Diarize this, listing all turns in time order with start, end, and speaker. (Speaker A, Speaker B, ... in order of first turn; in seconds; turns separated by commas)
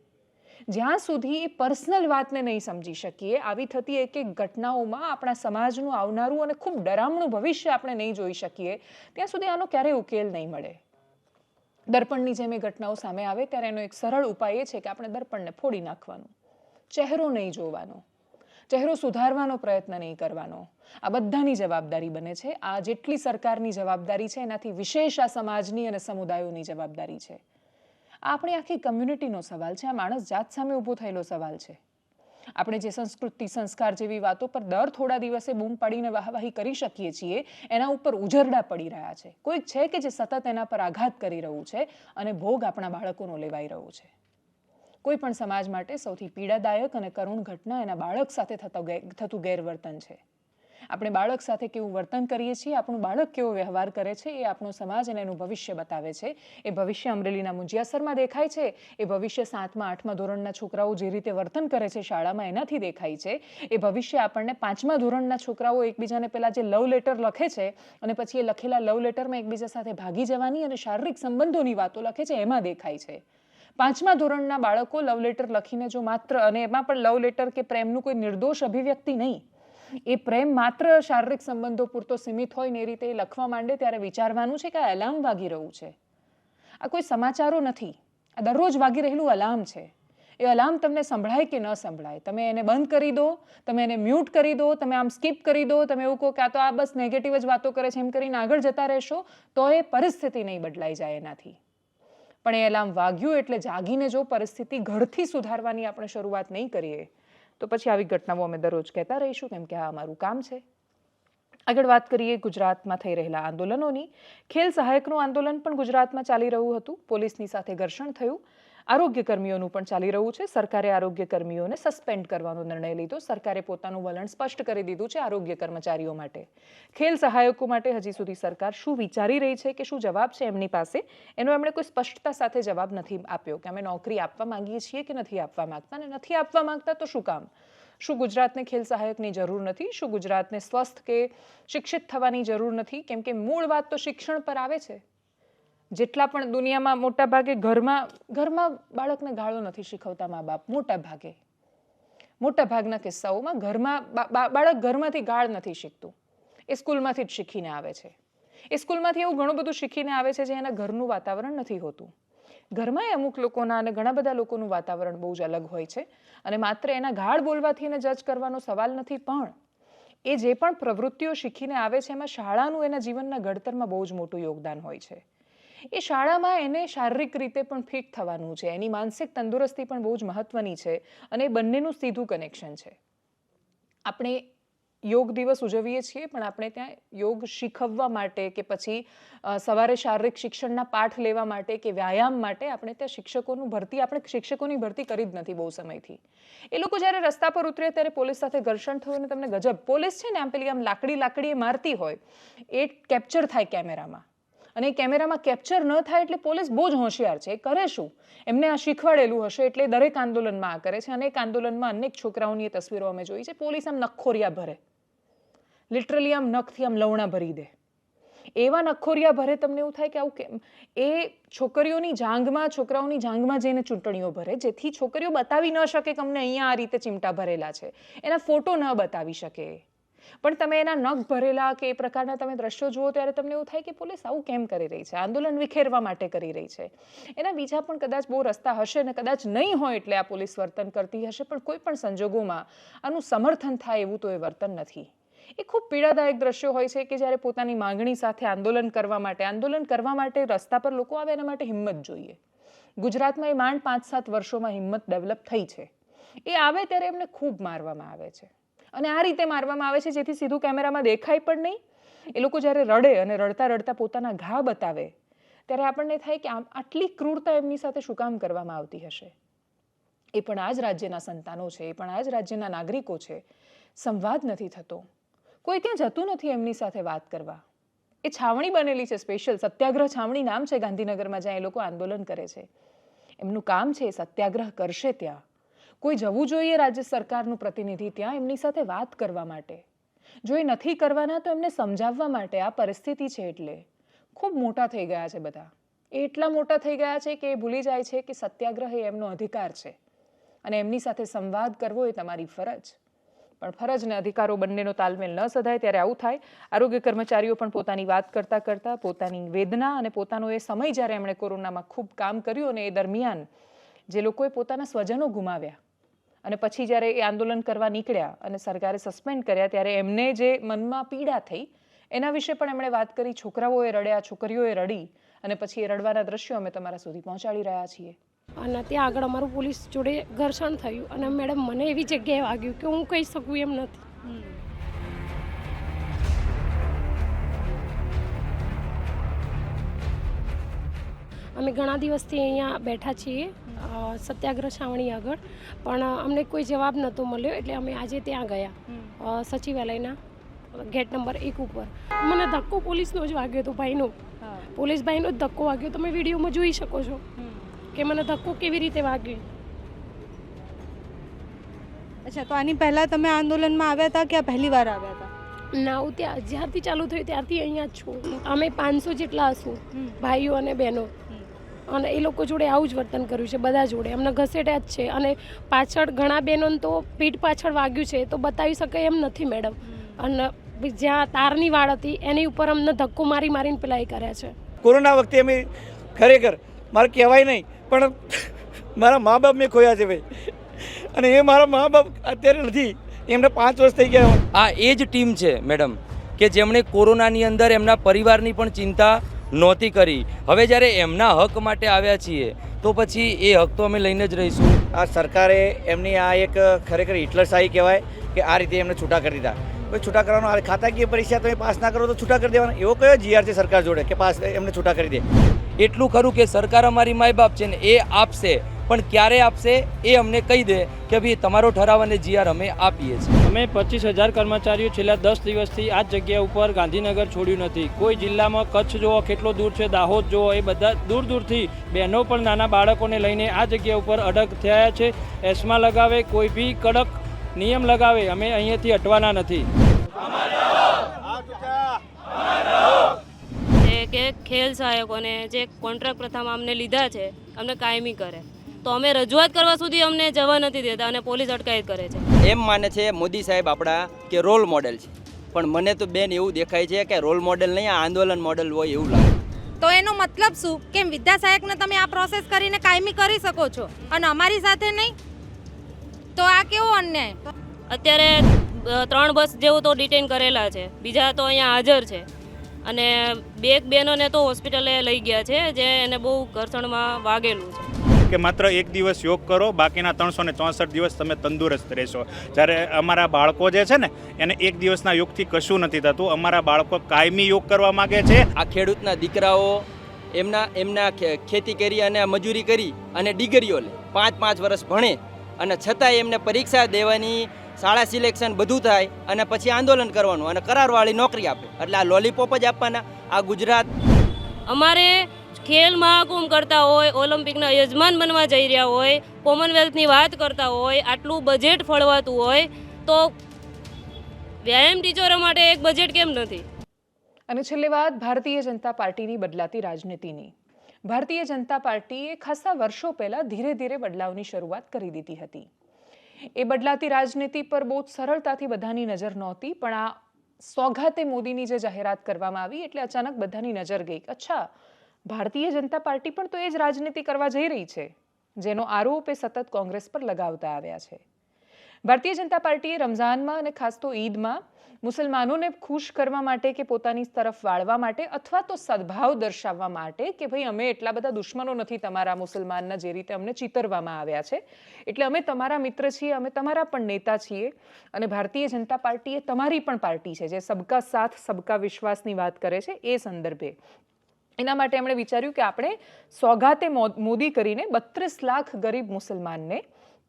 Speaker A: 0.7-10.8, Speaker A: 11.9-16.3, Speaker A: 16.9-18.0, Speaker A: 18.7-27.4, Speaker A: 28.3-31.8, Speaker A: 32.6-44.1, Speaker A: 45.0-50.2, Speaker A: 50.9-73.2, Speaker A: 73.8-79.4, Speaker A: 80.1-85.9, Speaker A: 86.8-101.6, Speaker A: 102.4-107.1, Speaker A: 107.6-110.6, Speaker A: 111.7-137.5, Speaker A: 138.0-145.0, Speaker A: 145.9-151.4, Speaker A: 152.4-156.1, Speaker A: 156.7-158.1, Speaker A: 158.7-162.1, Speaker A: 162.7-169.5, Speaker A: 170.3-175.2, Speaker A: 175.9-182.9, Speaker A: 184.1-184.5, Speaker A: 185.1-196.2, Speaker A: 196.7-202.2, Speaker A: 202.7-204.2, Speaker A: 204.8-214.8, Speaker A: 215.9-217.7, Speaker A: 218.6-229.8, Speaker A: 230.4-252.4, Speaker A: 253.0-255.9, Speaker A: 256.4-261.8, Speaker A: 262.3-265.1, Speaker A: 265.7-269.3, Speaker A: 270.3-273.4, Speaker A: 274.0-275.1, Speaker A: 275.6-277.6, Speaker A: 278.2-282.7, Speaker A: 283.4-285.4, Speaker A: 286.0-289.8, Speaker A: 290.4-299.9, Speaker A: 300.6-303.0, Speaker A: 303.6-313.5, Speaker A: 314.1-315.8, Speaker A: 316.4-328.2, Speaker B: 328.6-334.0, Speaker C: 334.2-334.6, Speaker B: 341.6-350.1, Speaker C: 348.9-349.1, Speaker B: 350.8-354.1, Speaker C: 354.4-354.7, Speaker B: 354.7-357.2, Speaker C: 357.4-357.8, Speaker B: 357.9-359.4, Speaker C: 362.2-365.3, Speaker B: 365.7-371.1, Speaker B: 371.9-384.5, Speaker C: 379.8-380.2, Speaker D: 384.8-385.6, Speaker D: 386.2-394.4, Speaker E: 394.5-404.8, Speaker D: 404.9-415.2, Speaker E: 415.8-423.4, Speaker F: 423.4-439.6, Speaker G: 443.8-452.2, Speaker H: 452.4-459.3, Speaker I: 459.8-465.1, Speaker I: 466.4-467.4, Speaker G: 467.9-472.3, Speaker G: 472.8-477.9, Speaker J: 478.3-488.4, Speaker H: 488.6-503.9, Speaker G: 504.7-513.3, Speaker G: 514.6-516.6, Speaker A: 517.5-520.5, Speaker A: 521.0-525.7, Speaker A: 526.5-534.7, Speaker A: 535.3-541.2, Speaker A: 542.0-563.8, Speaker A: 564.6-569.8